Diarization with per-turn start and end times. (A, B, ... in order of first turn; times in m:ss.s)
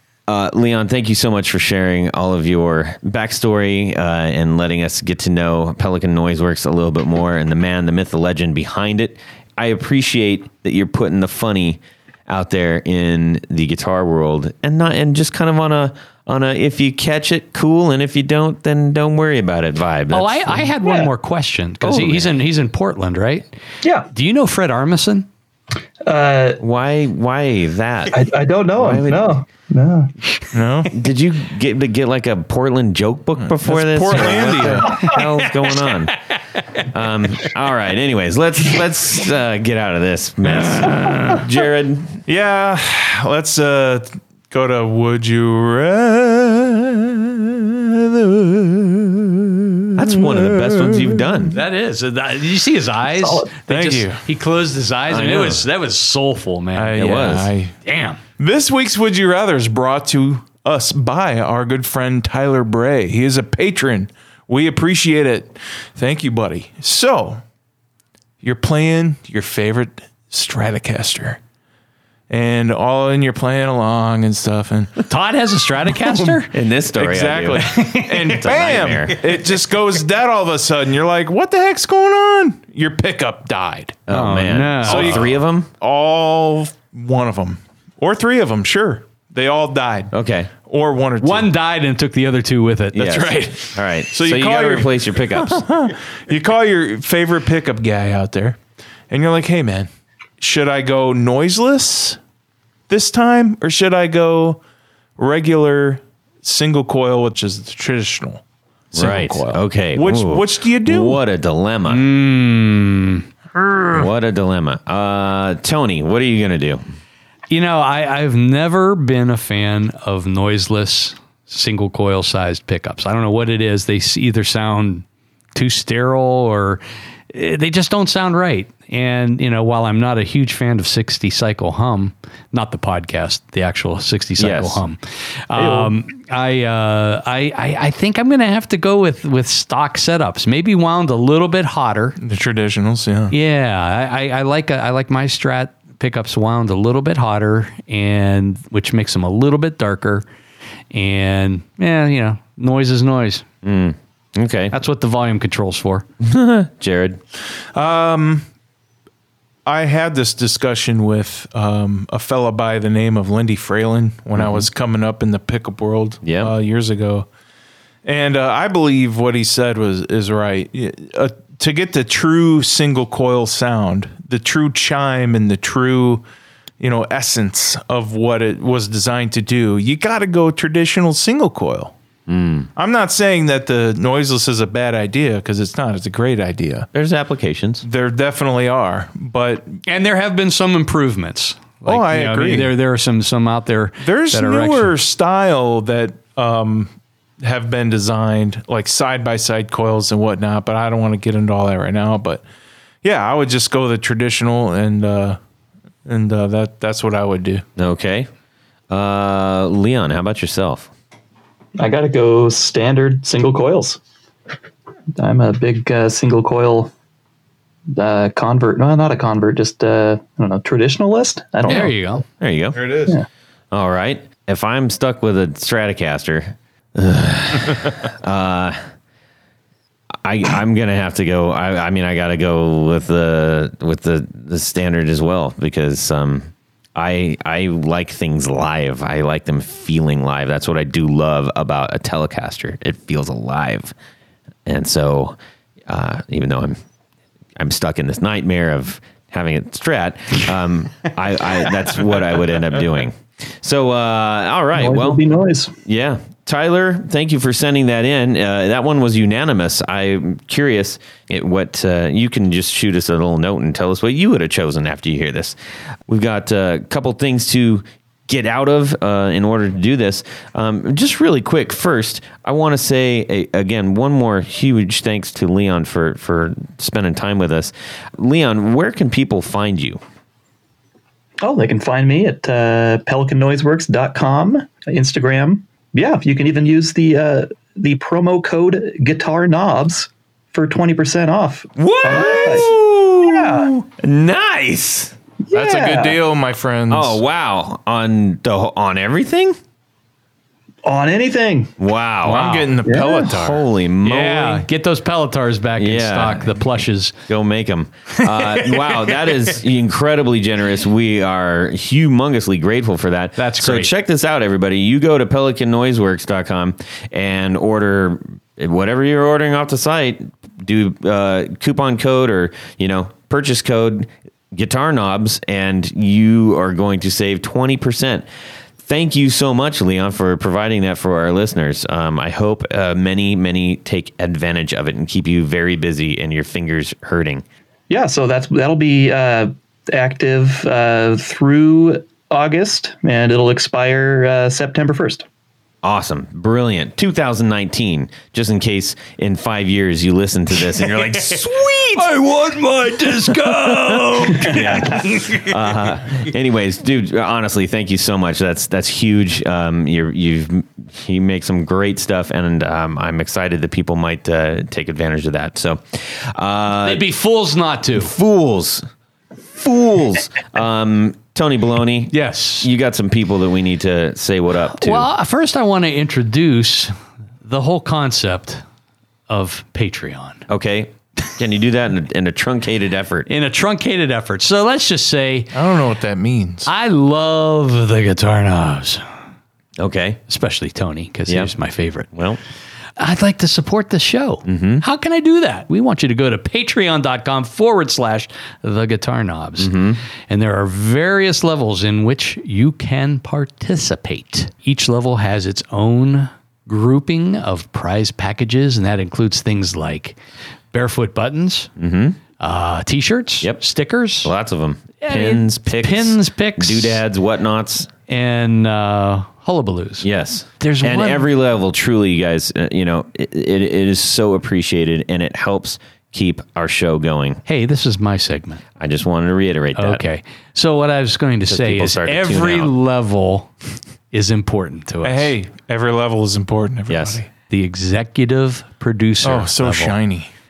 0:00.3-0:20.7 A
0:20.1-0:23.5 B
0:21.8-0:22.4 A
0:24.1-0:25.3 B
0:26.0-0:26.6 C
0:26.6-0:28.2 A
0:28.1-0:30.1 C
0:28.8-0:29.4 A
0:30.5-0:30.9 D
0:30.9-0:36.2 A
0:33.4-0:35.1 D
0:35.0-0:36.1 B
0:36.9-0:42.2 A
0:40.5-0:41.5 B
0:42.3-0:51.5 D
0:50.0-0:51.6 A
0:51.5-0:57.2 B
0:53.0-0:53.5 C
0:53.7-0:54.2 D
0:55.1-0:55.6 A
0:56.8-0:57.8 D
0:57.0-0:57.5 A
0:57.9-0:58.2 B
0:58.4-1:07.4 D
1:08.4-1:11.4 D
1:12.3-1:15.1 D
1:15.1-1:16.5 B
1:16.0-1:16.4 D
1:16.5-1:17.7 A
1:17.0-1:24.0 D
1:17.6-1:18.5 B
1:18.3-1:19.2 A
1:24.1-1:25.7 A
1:24.1-1:25.3 B
1:24.8-1:30.1 D
1:30.1-1:30.5 A
1:30.6-1:31.5 D
1:31.2-1:33.5 B
1:32.9-1:35.7 A
1:33.3-1:38.6 D
1:39.1-1:39.9 D
1:40.4-1:42.2 D
1:42.9-1:44.6 D
1:45.2-1:48.4 D
1:48.9-1:51.2 D
1:48.9-1:52.0 A
1:51.9-1:53.3 B
1:53.9-1:56.8 A
1:57.5-2:15.0 B
2:14.4-2:14.8 A
2:15.5-2:22.2 B
2:15.6-2:15.9 C
2:22.2-2:23.3 D
2:23.3-2:30.2 B
2:30.9-2:33.4 B
2:33.6-2:34.8 A
2:34.7-2:36.0 B
2:36.2-2:37.2 A
2:37.7-2:38.4 D
2:39.7-2:47.3 D
2:44.4-2:44.7 A
2:46.2-2:46.5 A
2:48.0-2:56.2 D
2:56.8-3:01.9 D
3:02.3-3:02.7 A
3:02.8-3:06.9 D
3:06.9-3:07.8 A
3:07.8-3:09.8 D
3:09.9-3:14.9 B
3:11.9-3:12.7 D
3:14.0-3:16.9 D
3:17.4-3:22.4 D
3:23.0-3:25.4 D
3:26.1-3:27.6 D
3:27.8-3:28.3 A
3:28.9-3:30.9 A
3:31.8-3:34.0 C
3:35.2-3:36.9 C
3:37.9-3:42.0 C
3:41.7-3:42.2 B
3:42.4-3:42.8 A
3:42.7-3:43.2 D
3:43.7-3:48.8 A
3:50.2-4:04.0 A
4:04.6-4:06.8 A
4:07.6-4:15.2 A
4:14.8-4:15.7 C
4:15.8-4:25.6 A
4:26.1-4:40.0 A
4:41.4-4:53.7 C
4:51.8-4:55.2 A
4:55.5-4:56.2 C
4:55.5-4:57.2 D
4:56.9-4:59.6 A
5:00.8-5:01.7 C
5:01.8-5:04.7 A
5:02.2-5:02.8 B
5:02.2-5:03.6 D
5:02.8-5:03.1 C
5:04.0-5:07.2 B
5:05.8-5:28.2 A
5:08.2-5:09.5 B
5:13.4-5:13.9 B
5:28.8-5:37.4 A
5:37.9-5:45.2 C
5:45.8-5:52.1 A
5:52.0-5:55.5 B
5:53.3-6:07.1 A
6:06.8-6:08.1 B
6:07.9-6:08.8 A
6:09.5-6:15.1 A
6:12.1-6:12.7 B
6:14.8-6:16.9 B
6:17.4-6:18.6 B
6:19.3-6:20.4 B
6:20.5-6:23.3 A
6:23.3-6:25.6 B
6:25.5-6:26.7 D
6:26.7-6:29.0 B
6:29.8-6:30.2 A
6:30.3-6:32.1 B
6:31.3-6:31.5 A
6:32.1-6:32.4 A
6:33.0-6:39.7 B
6:34.4-6:34.8 A
6:39.6-6:40.0 A
6:40.3-6:50.2 B
6:50.7-6:51.7 B
6:51.8-6:52.2 A
6:52.4-6:54.3 B
6:54.2-6:57.9 A
6:55.0-6:57.0 B
6:58.1-7:00.1 B
7:00.0-7:07.4 A
7:00.6-7:01.3 B
7:07.5-7:08.6 B
7:08.8-7:10.1 A
7:09.8-7:13.5 B
7:11.5-7:12.7 A
7:14.1-7:15.3 B
7:15.0-7:17.3 D
7:16.9-7:17.2 A
7:17.5-7:20.0 B
7:19.2-7:20.3 D